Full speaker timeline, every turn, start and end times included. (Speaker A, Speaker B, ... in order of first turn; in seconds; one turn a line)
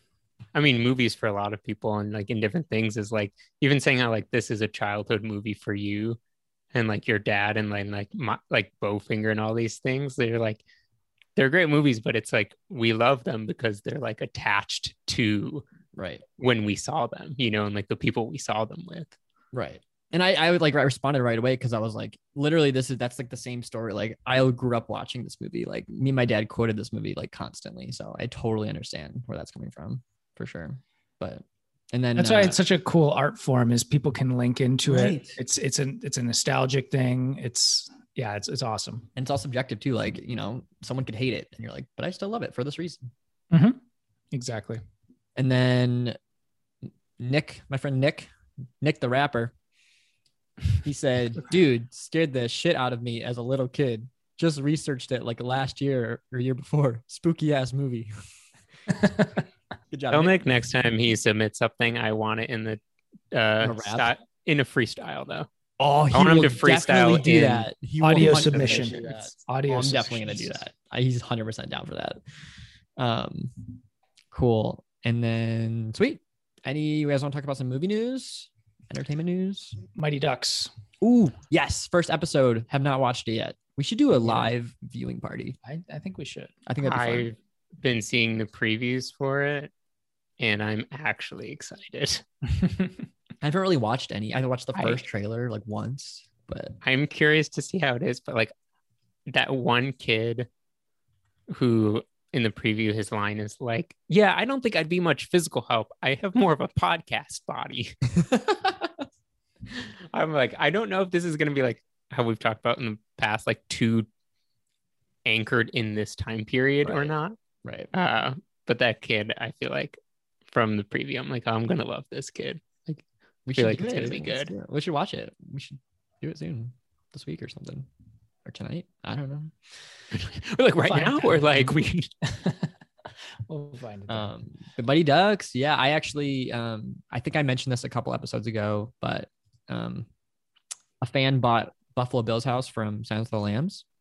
Speaker A: 0.5-6.2
Speaker A: 6.7-10.6
Speaker A: 11.4-15.6
Speaker B: 15.9-16.2
Speaker A: 16.4-19.2
Speaker B: 19.5-32.6
Speaker C: 32.2-39.1
Speaker B: 34.9-35.4
Speaker B: 39.2-43.1
Speaker C: 43.5-43.8
Speaker C: 44.3-44.8
Speaker B: 45.4-46.2
Speaker B: 46.9-49.5
Speaker B: 50.8-58.1
Speaker B: 59.9-60.4
Speaker A: 60.1-62.8
Speaker A: 63.3-65.5
Speaker B: 63.6-64.1
Speaker B: 65.8-72.2
Speaker A: 66.1-67.7
Speaker C: 68.0-70.6
Speaker A: 68.3-69.1
Speaker B: 73.0-73.8
Speaker B: 74.3-79.8
Speaker C: 80.0-80.7
Speaker B: 81.0-85.6
Speaker C: 84.2-84.5
Speaker C: 85.6-86.5
Speaker B: 86.7-87.3
Speaker A: 86.8-89.7
Speaker A: 90.4-92.2
Speaker C: 92.6-92.9
Speaker B: 93.4-96.8
Speaker A: 94.8-95.0
Speaker A: 96.8-98.5
Speaker A: 99.3-100.5
Speaker A: 101.5-108.0
Speaker B: 108.1-109.0
Speaker A: 109.8-114.1
Speaker A: 115.2-117.4
Speaker B: 116.8-117.1
Speaker B: 117.6-117.9
Speaker A: 117.9-120.0
Speaker A: 120.5-123.0
Speaker B: 123.5-127.9
Speaker A: 123.5-124.5
Speaker B: 128.4-129.8
Speaker A: 130.1-132.1
Speaker C: 130.9-131.7
Speaker C: 132.2-132.7
Speaker C: 133.5-134.3
Speaker B: 134.1-140.1
Speaker B: 141.0-143.8